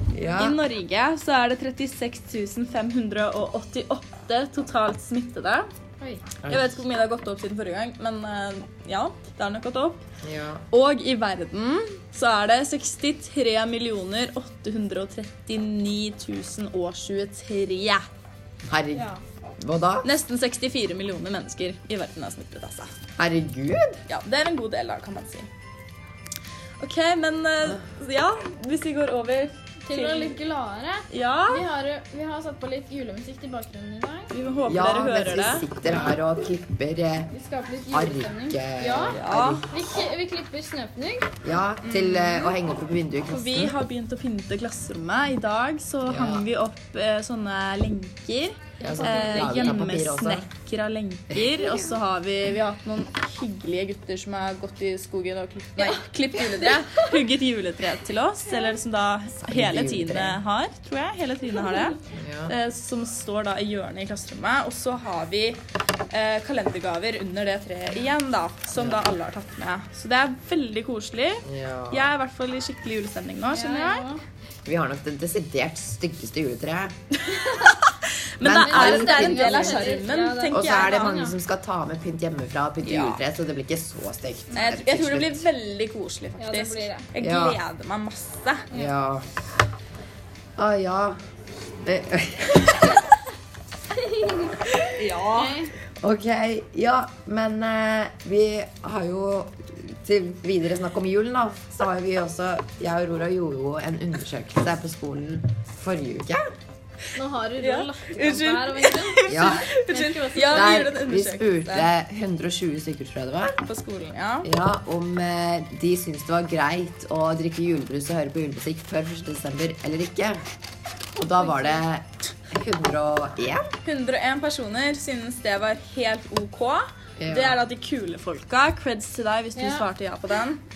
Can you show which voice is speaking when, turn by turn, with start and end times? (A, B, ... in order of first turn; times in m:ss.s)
0:00.1-0:00.6 A
0:00.3-0:05.7 B
0:06.0-0:06.3 C
0:06.4-0:06.8 A
0:06.5-0:10.0 B
0:10.2-0:10.6 A
0:10.7-0:18.1 B
0:18.7-0:20.1 A
0:18.9-0:19.2 C
0:20.0-0:22.9 B
0:23.2-0:24.0 A
0:24.1-0:25.5 B
0:26.8-0:30.4 B
0:29.9-0:34.3 C
0:31.1-0:31.6 B
0:34.3-0:35.8 B
0:34.7-0:37.3 A
0:35.8-0:36.2 C
0:37.3-0:41.4 C
0:37.9-0:39.7 A
0:39.0-0:39.7 B
0:41.4-0:43.8 A
0:41.8-0:42.5 B
0:43.3-1:14.1 B
0:46.0-0:46.5 A
0:48.8-0:50.5 A
0:48.8-0:49.9 C
0:55.8-0:57.2 C
0:59.4-1:00.4 A
1:02.1-1:02.6 A
1:11.4-1:12.1 A
1:13.5-1:14.2 C
1:14.6-1:17.0 A
1:17.2-1:21.2 B
1:17.4-1:17.8 C
1:18.4-1:20.0 A
1:18.4-1:21.4 C
1:20.5-1:25.5 A
1:22.8-1:23.2 B
1:24.5-1:24.8 C
1:24.6-1:28.7 B
1:26.4-1:27.1 C
1:27.2-1:27.6 A
1:28.7-1:29.3 A
1:30.6-1:31.2 A
1:31.8-1:33.0 A
1:33.9-1:34.6 C
1:34.8-1:35.6 B
1:35.3-1:35.7 C
1:36.0-1:46.5 A
1:47.1-1:50.9 C
1:47.6-1:51.9 B
1:49.3-1:49.7 A
1:50.5-1:53.6 A
1:53.6-1:54.5 B
1:54.4-2:00.4 A
2:01.2-2:03.7 A
2:01.4-2:01.8 C
2:03.8-2:10.6 B
2:07.2-2:07.6 A
2:09.6-2:09.9 C